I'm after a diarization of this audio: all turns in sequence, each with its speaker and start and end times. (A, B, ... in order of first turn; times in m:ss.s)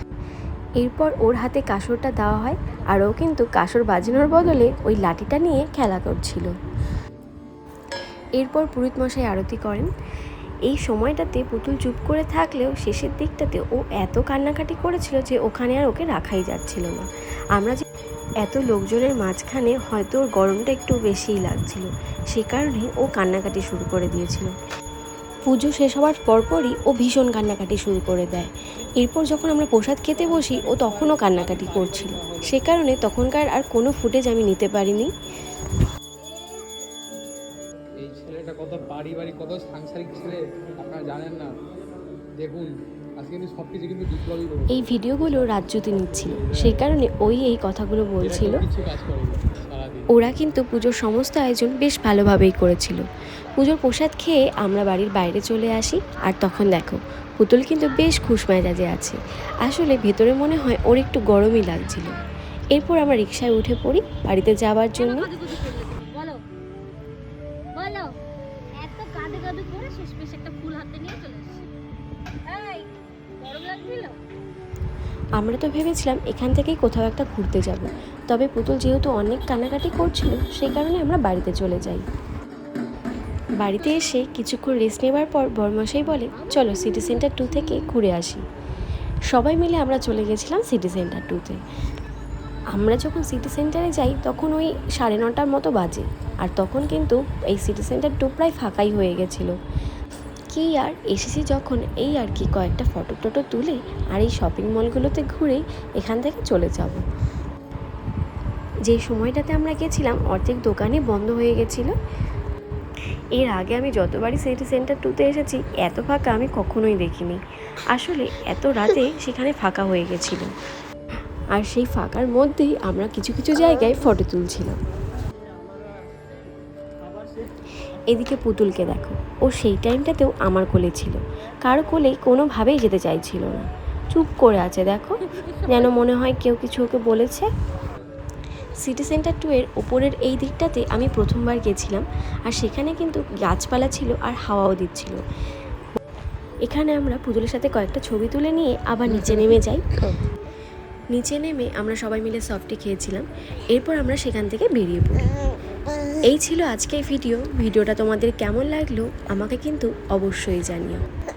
0:00.8-0:06.5 A
0:08.4-0:09.9 A
0:10.7-0:17.8 A
0:18.4-0:24.5 A
0:25.5-0:35.1 A
0:30.1-0:32.8 B
0:38.0-0:41.5 B
0:42.4-0:42.7 B
0:43.2-0:46.9 B
0:44.7-0:48.6 A
0:48.2-0:50.2 B
0:50.1-0:53.0 A
0:53.6-1:02.2 A
1:02.7-1:05.3 A
1:05.0-1:06.4 C
1:07.8-1:08.1 C
1:08.8-1:11.7 C
1:12.5-1:12.9 C
1:13.4-1:14.1 C
1:15.4-1:22.0 A
1:23.6-1:28.4 A
1:26.1-1:27.9 C
1:29.3-1:31.6 A
1:32.7-1:39.5 A
1:40.5-1:47.0 A
1:48.9-1:51.9 A
1:53.3-1:57.4 A
1:57.9-2:00.5 A
2:01.5-2:04.8 A
2:08.1-2:15.2 A
2:15.2-2:16.0 C
2:15.7-2:17.5 A
2:18.8-2:25.2 A
2:26.7-2:29.8 A
2:31.1-2:35.3 A
2:36.3-2:41.0 A